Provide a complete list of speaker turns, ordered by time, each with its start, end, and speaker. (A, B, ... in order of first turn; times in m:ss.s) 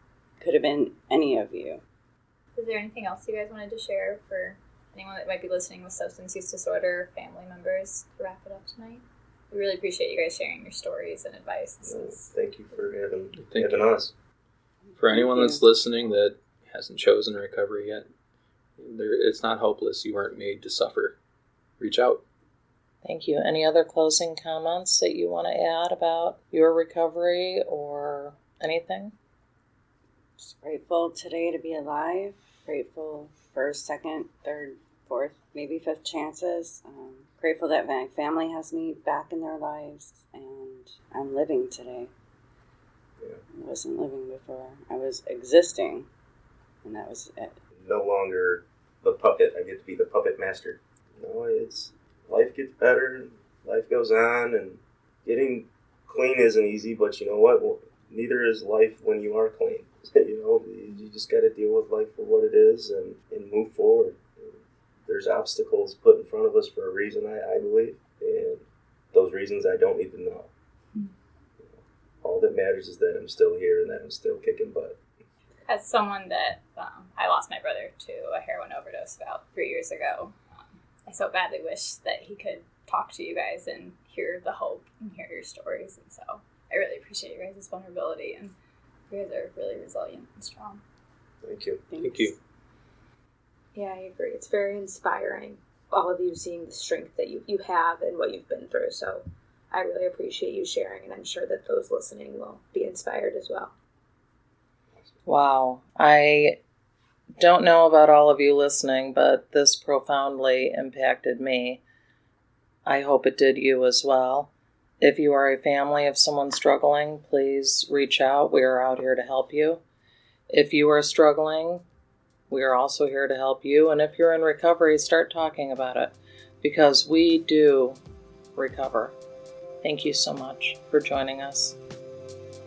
0:00.4-0:01.8 A
0:02.5-0:12.2 B
0:11.8-0:14.1 C
0:13.3-0:13.8 D
0:15.0-0:18.1 D
0:15.1-0:15.5 A
0:18.8-0:21.2 D
0:21.8-0:22.2 D
0:23.0-0:29.1 E
0:30.4-0:42.1 A
0:43.5-0:46.1 A
0:46.8-0:47.6 A
0:47.8-1:04.5 C
1:05.0-1:10.5 C
1:11.6-1:15.0 C
1:15.7-1:20.3 B
1:21.0-1:28.5 B
1:29.1-1:30.8 B
1:31.4-1:31.8 C
1:31.9-1:32.3 A
1:32.0-1:32.3 D
1:33.7-1:43.7 F
1:45.2-1:46.6 E
1:47.4-1:51.8 E
1:52.8-1:54.5 E
1:55.0-1:59.8 E
2:00.5-2:01.8 E
2:02.5-2:08.0 E
2:08.6-2:09.1 E
2:09.8-2:11.8 E